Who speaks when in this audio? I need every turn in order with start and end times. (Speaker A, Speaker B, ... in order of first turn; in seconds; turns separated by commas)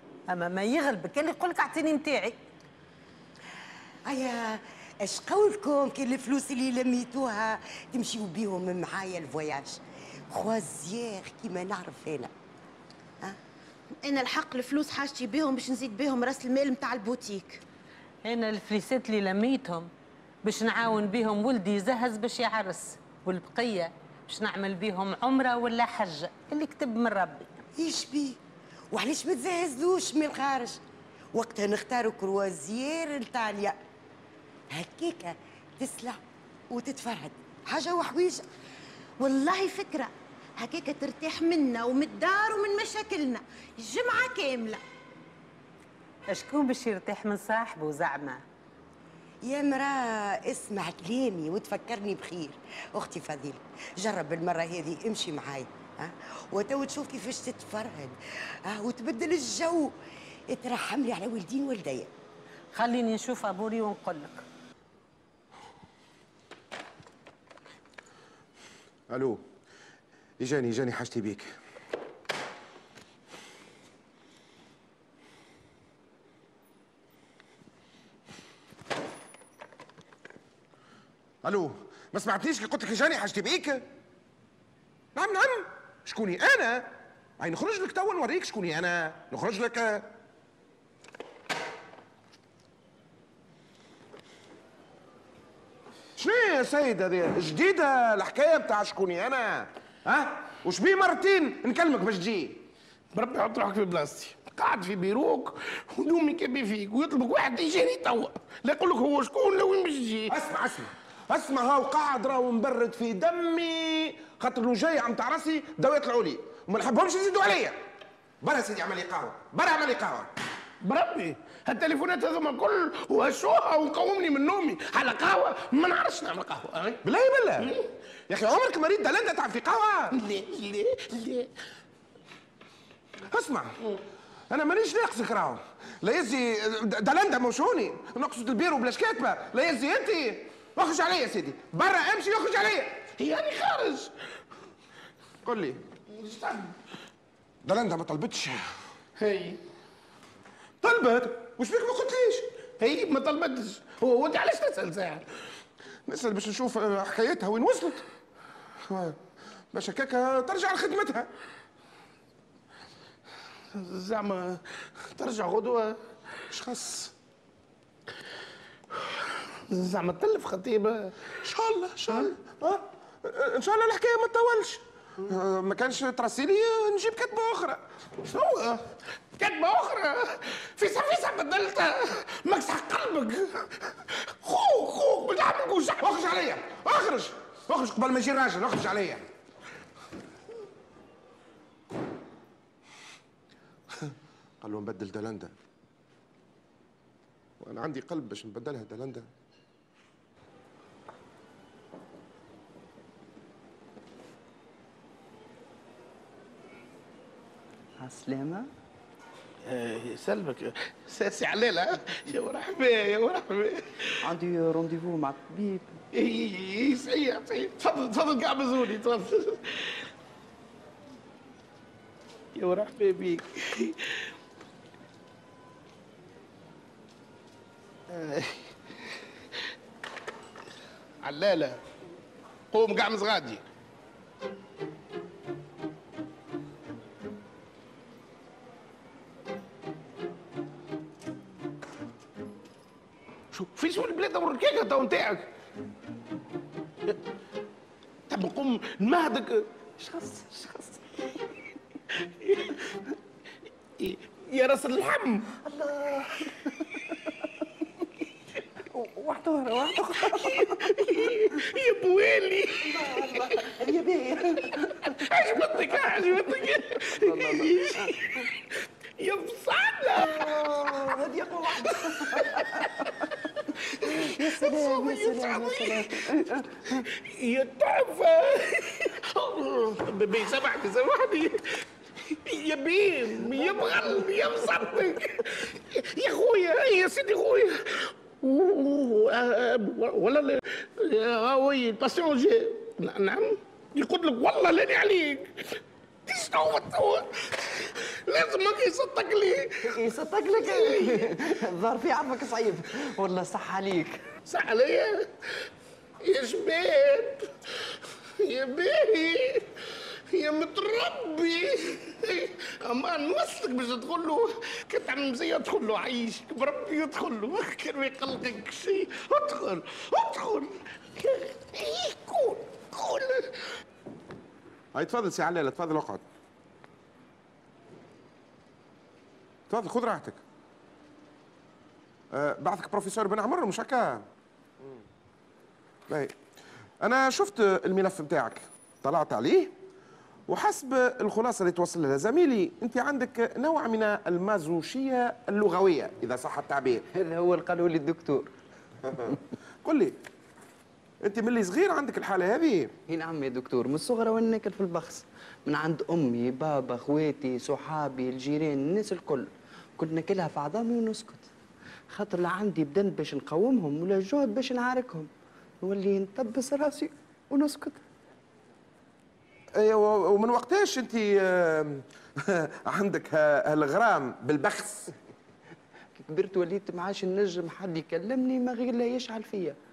Speaker A: 0.3-2.4, Speaker B: 4.0-12.3, Speaker C: 14.0-17.6, Speaker A: 18.2-19.9, Speaker A: 20.4-27.6, Speaker B: 27.8-28.4, Speaker B: 28.9-30.8, Speaker B: 31.3-33.8, Speaker B: 34.7-38.4, Speaker C: 39.2-44.8, Speaker A: 46.3-48.4, Speaker B: 49.4-59.9, Speaker B: 60.5-62.1, Speaker A: 62.7-64.4, Speaker D: 69.1-69.4, Speaker D: 70.4-71.5, Speaker D: 81.4-83.8, Speaker D: 85.1-90.1, Speaker D: 96.2-102.6, Speaker E: 103.1-110.3, Speaker D: 110.3-117.8, Speaker D: 118.4-120.3, Speaker E: 120.8-127.0, Speaker D: 127.0-127.7, Speaker E: 127.6-127.9, Speaker D: 128.3-130.2, Speaker E: 130.1-131.5, Speaker D: 133.3-133.7, Speaker D: 134.5-143.0, Speaker E: 143.2-144.1, Speaker D: 145.4-145.8, Speaker E: 146.1-146.7, Speaker D: 147.6-148.7, Speaker E: 149.2-149.6, Speaker D: 150.8-152.5, Speaker E: 152.8-155.2, Speaker D: 156.1-158.0, Speaker D: 158.8-159.2, Speaker D: 159.7-161.3, Speaker E: 163.7-165.9, Speaker D: 166.5-167.1, Speaker E: 168.9-171.2, Speaker D: 171.4-177.8, Speaker E: 178.2-186.3, Speaker D: 186.0-189.2, Speaker D: 194.6-195.5, Speaker D: 197.6-199.3, Speaker F: 208.0-208.7, Speaker E: 209.7-214.0, Speaker F: 214.2-216.0, Speaker E: 216.1-220.0, Speaker E: 222.6-224.2, Speaker E: 228.1-228.7, Speaker E: 231.2-231.8, Speaker E: 232.7-233.6, Speaker E: 243.5-245.5, Speaker E: 248.3-249.6, Speaker F: 250.0-251.0, Speaker E: 252.4-252.8, Speaker E: 254.0-255.5, Speaker F: 255.6-256.3, Speaker F: 258.9-260.9, Speaker E: 260.0-263.6, Speaker F: 262.9-264.9, Speaker E: 265.0-268.5, Speaker F: 267.2-268.1, Speaker E: 269.2-271.0, Speaker F: 270.4-272.9, Speaker E: 272.0-272.7, Speaker E: 274.0-276.1, Speaker F: 274.2-277.0, Speaker E: 277.2-295.7, Speaker F: 283.6-284.0, Speaker E: 296.3-299.9, Speaker F: 299.9-304.2, Speaker E: 300.6-301.4, Speaker E: 304.5-305.3, Speaker E: 306.2-309.7, Speaker E: 310.3-323.5, Speaker D: 324.9-326.2, Speaker D: 329.7-330.4, Speaker D: 332.3-334.3, Speaker D: 336.1-336.4, Speaker D: 337.0-339.7, Speaker D: 340.5-347.1, Speaker F: 347.1-348.5, Speaker D: 349.1-350.2, Speaker D: 351.2-352.9, Speaker F: 353.1-361.5, Speaker F: 362.1-365.3, Speaker F: 365.8-368.0, Speaker D: 369.8-375.1, Speaker F: 376.2-379.8